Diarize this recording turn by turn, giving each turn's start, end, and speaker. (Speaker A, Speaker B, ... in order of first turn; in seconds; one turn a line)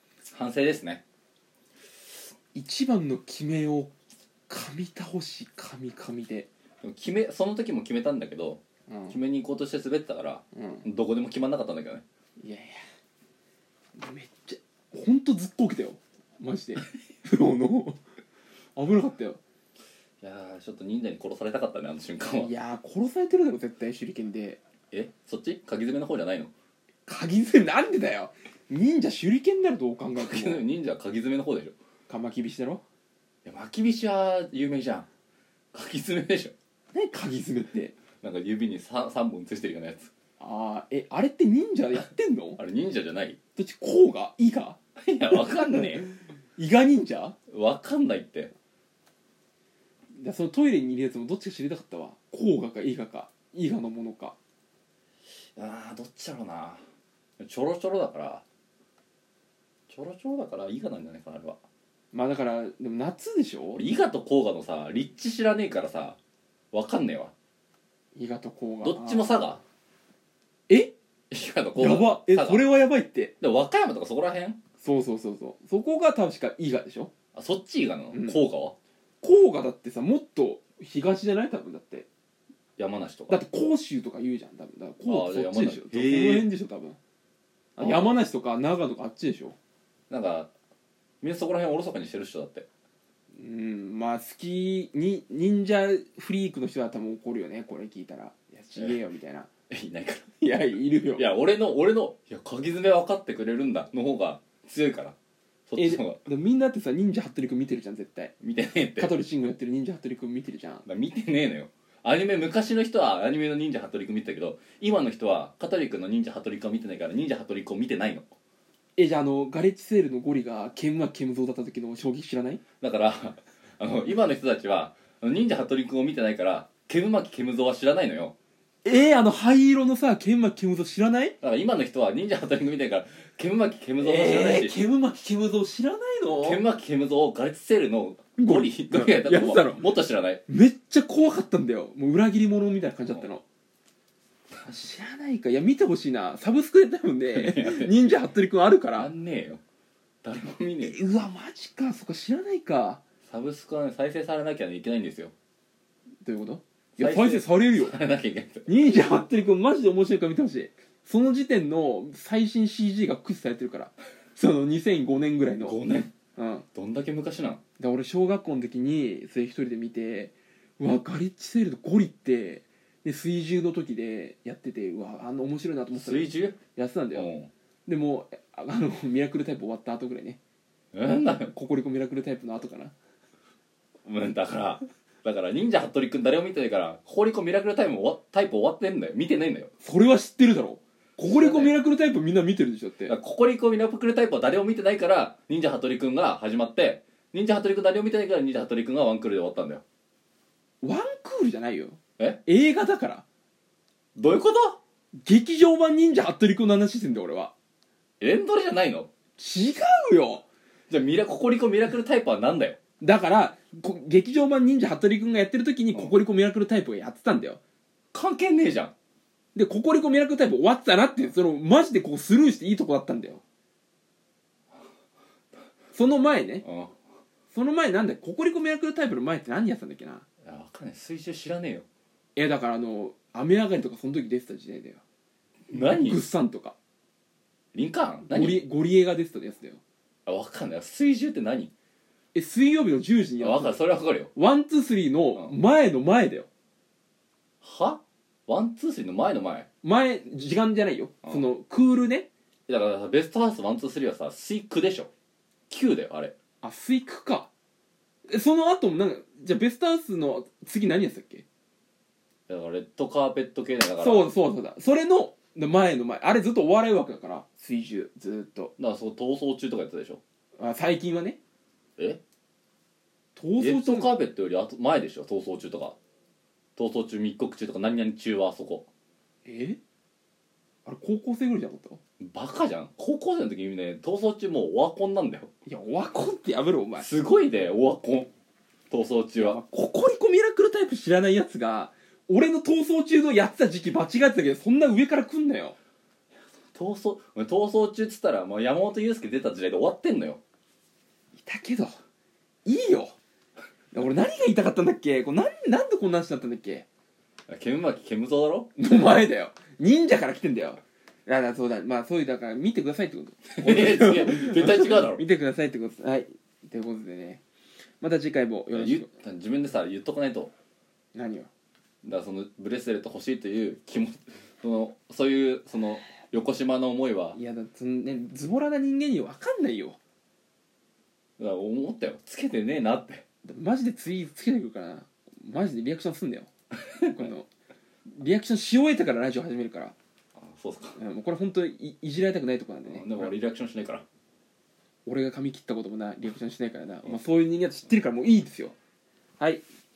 Speaker A: 0.2-1.0
Speaker B: 2.5-3.9
Speaker B: 4.5-6.5
Speaker A: 6.8-12.0
Speaker B: 8.9-9.2
Speaker B: 10.5-10.8
Speaker B: 12.4-12.8
Speaker B: 13.9-18.0
Speaker B: 18.8-19.4
Speaker A: 20.2-22.5
Speaker B: 22.4-24.6
Speaker A: 24.9-26.5
Speaker B: 27.1-30.6
Speaker A: 30.1-31.7
Speaker B: 32.1-32.8
Speaker A: 33.4-35.0
Speaker A: 35.7-36.5
Speaker B: 36.9-38.0
Speaker A: 38.2-40.1
Speaker B: 40.4-42.6
Speaker A: 42.6-43.4
Speaker B: 43.5-44.8
Speaker A: 45.0-46.1
Speaker B: 45.4-45.8
Speaker B: 46.6-47.4
Speaker A: 47.5-48.5
Speaker B: 50.1-54.3
Speaker A: 55.5-56.8
Speaker A: 57.4-58.4
Speaker A: 59.9-61.6
Speaker B: 62.1-63.8
Speaker A: 63.7-66.2
Speaker A: 66.7-67.3
Speaker B: 68.1-69.5
Speaker A: 68.8-69.6
Speaker A: 71.3-72.6
Speaker B: 71.8-73.3
Speaker A: 73.4-74.6
Speaker B: 74.8-77.1
Speaker A: 77.3-78.8
Speaker B: 78.1-78.4
Speaker B: 79.2-82.1
Speaker A: 82.8-83.4
Speaker B: 83.3-87.0
Speaker A: 85.0-86.5
Speaker A: 87.8-88.1
Speaker B: 87.8-89.5
Speaker A: 90.1-90.5
Speaker A: 91.2-92.7
Speaker B: 93.3-99.5
Speaker A: 99.7-100.4
Speaker B: 100.4-101.2
Speaker A: 101.2-105.2
Speaker A: 105.7-106.2
Speaker B: 105.8-108.3
Speaker A: 108.4-109.1
Speaker B: 109.0-110.8
Speaker A: 110.8-118.3
Speaker B: 119.0-122.6
Speaker A: 122.8-128.3
Speaker B: 128.8-131.3
Speaker A: 131.4-134.8
Speaker B: 134.0-136.6
Speaker A: 136.4-140.4
Speaker B: 138.4-139.8
Speaker B: 140.5-143.4
Speaker B: 144.6-149.1
Speaker A: 147.3-147.9
Speaker A: 148.9-149.6
Speaker A: 150.2-151.0
Speaker B: 150.8-153.0
Speaker A: 153.2-155.3
Speaker B: 156.2-157.9
Speaker A: 157.0-158.7
Speaker B: 158.7-165.8
Speaker A: 165.6-166.1
Speaker B: 166.3-166.7
Speaker A: 166.7-167.6
Speaker B: 167.8-177.3
Speaker A: 175.9-176.6
Speaker A: 177.1-177.5
Speaker B: 177.8-180.4
Speaker A: 180.9-181.5
Speaker B: 181.5-182.9
Speaker A: 184.1-189.7
Speaker B: 189.8-193.1
Speaker A: 191.2-191.8
Speaker A: 193.1-199.8
Speaker B: 200.8-203.2
Speaker A: 204.2-204.8
Speaker B: 205.2-207.5
Speaker A: 208.2-209.1
Speaker B: 209.4-210.4
Speaker A: 210.9-212.8
Speaker B: 213.0-217.6
Speaker A: 218.1-218.9
Speaker B: 219.5-223.4
Speaker B: 225.9-226.6
Speaker A: 226.6-226.9
Speaker B: 227.5-230.2
Speaker A: 230.4-231.8
Speaker B: 232.3-235.0
Speaker A: 235.7-236.2
Speaker B: 235.7-236.7
Speaker A: 237.7-238.6
Speaker B: 238.3-239.8
Speaker A: 240.2-241.7
Speaker B: 242.3-243.8
Speaker A: 243.4-244.3
Speaker B: 244.3-246.5
Speaker A: 247.6-249.7
Speaker B: 249.8-252.3
Speaker A: 252.7-255.1
Speaker A: 255.7-256.3
Speaker B: 256.6-257.5
Speaker B: 258.3-261.4
Speaker A: 262.5-264.3
Speaker B: 264.0-268.7
Speaker A: 268.8-270.2
Speaker B: 270.6-271.4
Speaker B: 273.4-274.1
Speaker A: 273.6-275.9
Speaker A: 276.8-278.9
Speaker B: 279.4-279.8
Speaker B: 280.8-282.0
Speaker A: 282.2-285.5
Speaker B: 285.6-287.1
Speaker A: 287.0-288.3
Speaker A: 288.9-289.6
Speaker B: 289.4-295.8
Speaker A: 296.7-300.4
Speaker B: 301.4-301.9
Speaker B: 302.6-303.1
Speaker B: 303.9-306.9
Speaker A: 307.5-308.7
Speaker B: 308.8-317.4
Speaker A: 313.5-315.2
Speaker B: 318.0-319.1
Speaker A: 318.7-320.5
Speaker B: 321.1-321.5
Speaker A: 322.0-327.4
Speaker B: 327.3-330.0
Speaker A: 331.4-333.2
Speaker B: 333.4-336.5
Speaker B: 337.0-337.5
Speaker B: 338.1-339.9
Speaker A: 340.4-341.0
Speaker B: 340.9-343.3
Speaker A: 342.8-344.0
Speaker B: 345.1-348.7
Speaker B: 349.4-349.6